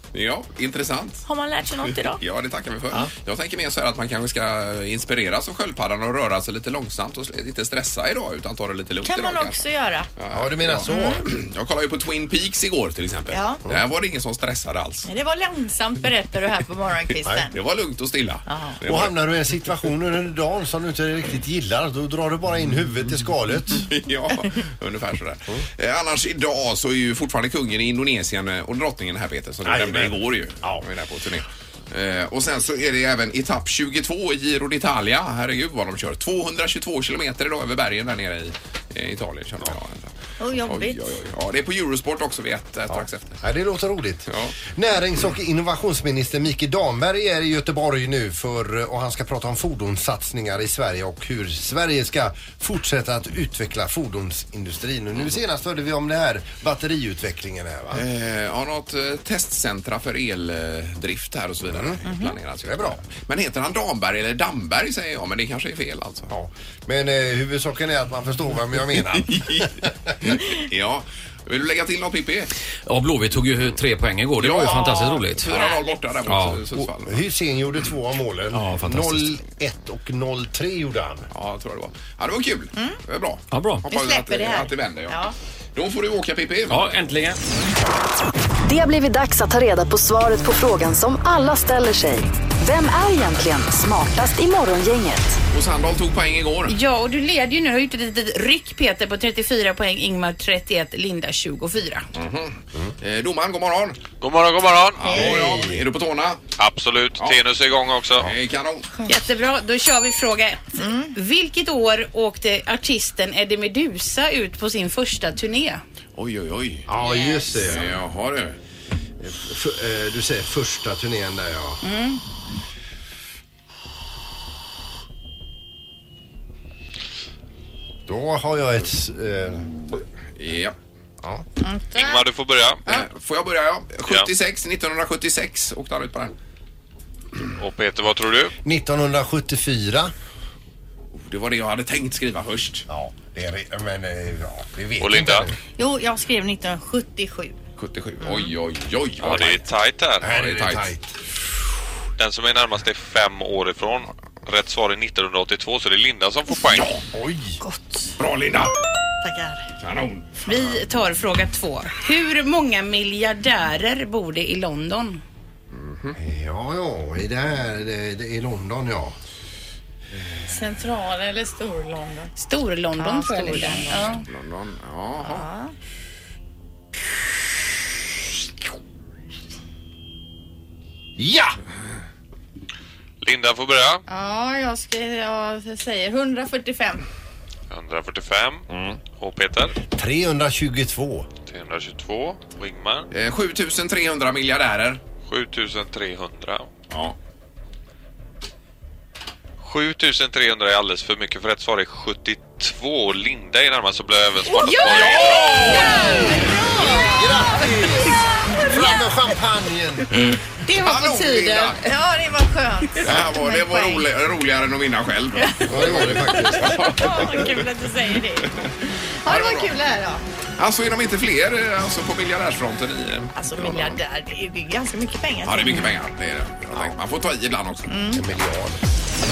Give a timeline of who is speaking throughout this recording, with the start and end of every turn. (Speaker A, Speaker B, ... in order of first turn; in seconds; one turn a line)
Speaker A: 0.1-1.2
Speaker B: 1.2-2.2
Speaker A: 2.0-9.6
Speaker B: 9.0-10.1
Speaker A: 10.2-15.1
Speaker C: 10.3-11.3
Speaker B: 10.9-11.2
Speaker B: 13.3-13.6
Speaker B: 15.1-17.5
Speaker A: 17.5-19.1
Speaker B: 18.5-18.8
Speaker C: 18.8-23.9
Speaker A: 23.8-40.1
Speaker C: 29.6-30.9
Speaker B: 40.4-41.2
Speaker A: 40.6-43.4
Speaker C: 42.9-58.0
Speaker A: 44.3-44.5
Speaker A: 57.9-66.3
Speaker C: 61.7-62.0
Speaker C: 62.6-63.0
Speaker C: 66.3-69.9
Speaker A: 69.1-72.5
Speaker D: 72.8-75.6
Speaker A: 74.4-77.2
Speaker B: 75.5-75.8
Speaker D: 76.2-76.6
Speaker C: 76.7-81.3
Speaker D: 78.5-79.3
Speaker A: 81.3-85.2
Speaker D: 83.5-83.8
Speaker B: 83.8-85.3
Speaker A: 85.7-86.8
Speaker D: 86.7-87.4
Speaker E: 88.7-95.4
Speaker A: 95.5-96.8
Speaker F: 96.7-102.1
Speaker A: 102.1-104.0
Speaker G: 104.2-105.0
Speaker A: 105.0-106.4
Speaker C: 105.1-105.8
Speaker G: 106.6-108.3
Speaker A: 108.2-108.9
Speaker F: 109.0-115.8
Speaker B: 110.8-111.1
Speaker A: 116.2-116.9
Speaker C: 116.9-118.0
Speaker B: 117.0-117.5
Speaker A: 117.6-118.6
Speaker C: 119.2-121.8
Speaker F: 121.8-122.2
Speaker C: 128.1-130.0
Speaker A: 130.4-130.7
Speaker B: 131.6-132.2
Speaker G: 131.9-132.8
Speaker A: 132.8-136.3
Speaker G: 137.6-138.5
Speaker C: 138.6-140.1
Speaker A: 141.1-142.8
Speaker C: 142.9-145.6
Speaker G: 145.0-145.4
Speaker B: 145.8-147.5
Speaker A: 147.8-149.6
Speaker G: 149.2-150.3
Speaker C: 150.2-151.1
Speaker A: 150.2-150.9
Speaker G: 152.2-156.9
Speaker C: 157.1-157.6
Speaker B: 157.6-158.1
Speaker A: 158.2-158.7
Speaker B: 159.2-159.7
Speaker A: 159.8-160.6
Speaker F: 160.4-165.2
Speaker A: 165.7-166.2
Speaker C: 166.2-169.2
Speaker B: 170.4-172.3
Speaker F: 172.3-174.2
Speaker B: 172.9-174.2
Speaker A: 174.3-175.4
Speaker B: 175.2-175.7
Speaker C: 181.2-181.6
Speaker G: 183.2-184.0
Speaker B: 184.1-187.0
Speaker G: 187.7-189.8
Speaker A: 188.7-189.0
Speaker C: 189.9-191.3
Speaker G: 191.4-193.1
Speaker A: 193.1-195.0
Speaker G: 195.2-196.7
Speaker A: 196.9-197.2
Speaker G: 199.6-206.2
Speaker B: 204.5-209.0
Speaker A: 204.7-206.3
Speaker C: 206.8-210.1
Speaker B: 210.6-214.1
Speaker A: 210.7-211.8
Speaker A: 213.0-217.6
Speaker B: 215.4-215.6
Speaker C: 215.6-217.1
Speaker B: 216.7-218.7
Speaker B: 219.2-220.2
Speaker A: 219.3-219.7
Speaker A: 220.6-224.0
Speaker B: 223.3-225.8
Speaker A: 225.4-227.9
Speaker B: 227.9-228.2
Speaker C: 228.1-228.8